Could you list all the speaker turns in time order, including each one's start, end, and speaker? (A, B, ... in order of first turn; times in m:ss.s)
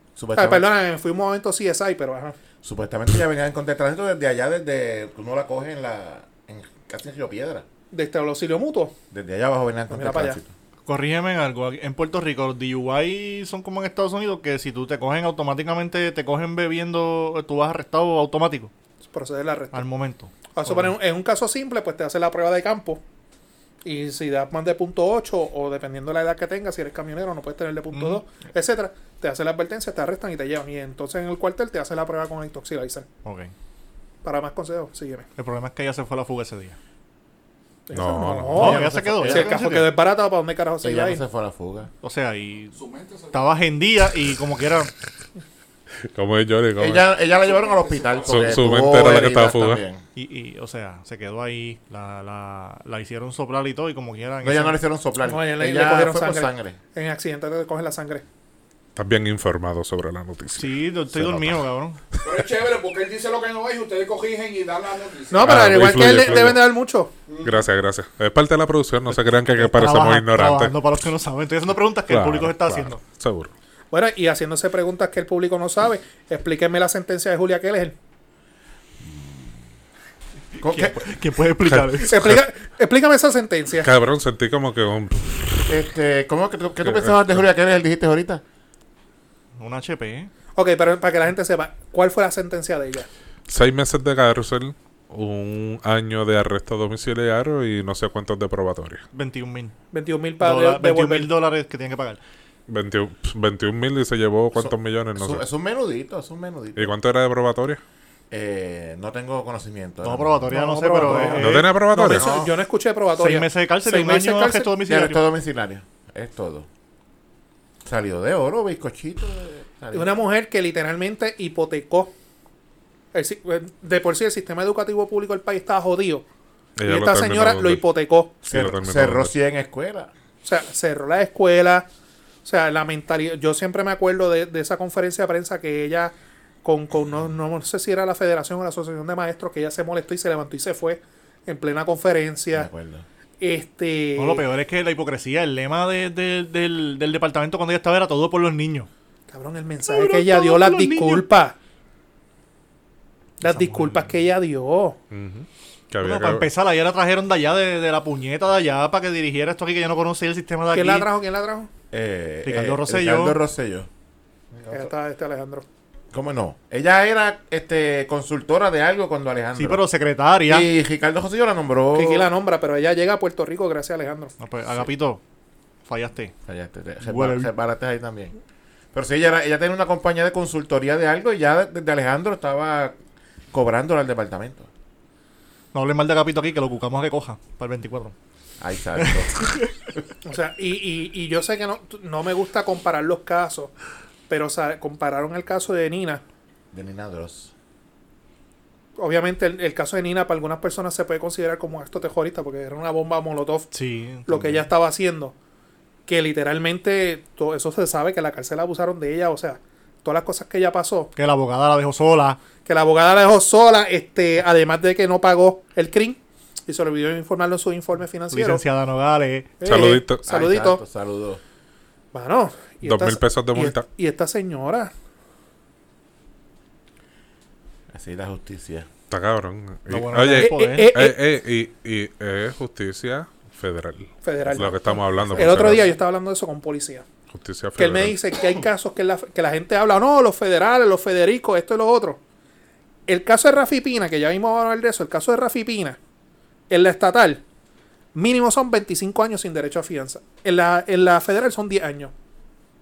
0:00.2-0:00.6 A
0:00.4-0:02.4 B
0:02.6-0:07.7 A
0:07.9-0:08.9 B
0:09.1-0:10.5 A
0:09.9-0:10.4 B
0:10.9-0:18.7 C
0:19.1-0:19.8 B
0:19.7-0:20.9 C
0:20.5-0:23.0 B
0:23.8-0:33.1 B
0:27.9-0:28.2 C
0:33.2-0:33.5 C
0:34.2-0:35.3 B
0:35.4-0:36.8 C
0:37.9-0:41.2 B
0:37.9-0:38.8 D
0:38.5-0:39.9 C
0:38.6-0:39.6 A
0:40.8-0:41.9 A
0:42.0-0:42.8 C
0:42.7-0:43.6 E
0:43.3-0:44.9 C
0:46.1-0:47.1 D
0:46.8-0:50.0 A
0:47.4-0:48.6 E
0:48.3-0:49.8 D
0:50.2-0:54.8 C
0:54.4-0:56.8 A
0:55.2-0:58.2 B
0:59.0-1:01.6 D
1:00.6-1:02.0 C
1:02.2-1:05.7 E
1:05.3-1:07.1 B
1:05.4-1:06.7 D
1:07.3-1:07.7 E
1:07.4-1:10.8 D
1:09.6-1:13.0 C
1:12.1-1:13.5 D
1:13.9-1:18.0 B
1:19.0-1:19.5 A
1:20.6-1:21.1 A
1:20.6-1:22.4 C
1:21.6-1:22.4 D
1:22.1-1:23.9 B
1:23.8-1:25.8 D
1:25.7-1:28.4 A
1:26.8-1:27.4 D
1:29.6-1:30.3 C
1:30.6-1:33.1 B
1:33.5-1:39.0 D
1:39.1-1:39.8 C
1:39.9-1:41.3 B
1:40.4-1:42.2 C
1:42.7-1:45.4 D
1:44.6-1:46.9 A
1:46.8-1:47.8 D
1:48.3-1:50.5 A
1:50.0-1:51.7 C
1:50.5-1:54.8 B
1:51.1-1:51.4 A
1:51.4-1:52.3 D
1:52.0-1:52.5 A
1:53.2-1:55.2 C
1:54.9-1:56.7 A
1:57.8-2:00.2 A
1:59.9-2:02.1 B
2:03.1-2:06.2 B
2:06.8-2:07.8 D
2:06.8-2:08.3 B
2:08.4-2:09.3 D
2:08.5-2:10.1 A
2:10.4-2:11.9 B
2:12.4-2:16.1 B
2:16.6-2:22.7 B
2:22.5-2:23.1 A
2:23.4-2:24.4 B
2:24.2-2:28.9 C
2:29.3-2:31.6 B
2:29.8-2:31.3 C
2:33.4-2:35.0 B
2:33.4-2:34.2 C
2:35.1-2:36.5 D
2:36.0-2:41.1 C
2:40.7-2:41.7 B
2:41.9-2:43.9 A
2:42.4-2:43.4 C
2:44.5-2:44.9 A
2:44.7-2:45.6 B
2:46.1-2:49.8 A
2:49.6-2:50.7 C
2:50.5-2:52.3 A
2:51.9-2:54.3 B
2:54.4-2:55.2 C
2:55.8-2:56.3 C
2:56.5-2:58.4 A
2:57.0-2:57.5 C
2:58.9-3:03.0 A
3:03.5-3:04.7 A
3:05.7-3:08.2 C
3:08.6-3:09.5 A
3:09.0-3:09.7 C
3:10.2-3:13.7 B
3:14.3-3:16.2 B
3:16.7-3:17.5 A
3:19.0-3:23.7 B
3:23.7-3:24.6 C
3:24.3-3:25.4 B
3:26.1-3:31.1 B
3:31.2-3:32.4 C
3:32.6-3:38.6 B
3:38.3-3:39.6 C
3:39.6-3:40.8 B
3:39.6-3:40.2 D
3:40.2-3:41.4 A
3:42.1-3:44.9 B
3:42.8-3:43.9 D
3:47.9-3:48.9 A
3:49.1-3:55.8 D
3:49.9-3:51.0 C
3:50.4-3:51.2 B
3:54.2-3:54.8 B
3:54.4-3:55.8 A
3:55.3-3:57.0 B
3:57.3-3:58.2 D
3:57.8-4:02.2 B
4:03.1-4:06.0 B
4:06.7-4:07.4 B
4:08.2-4:12.1 B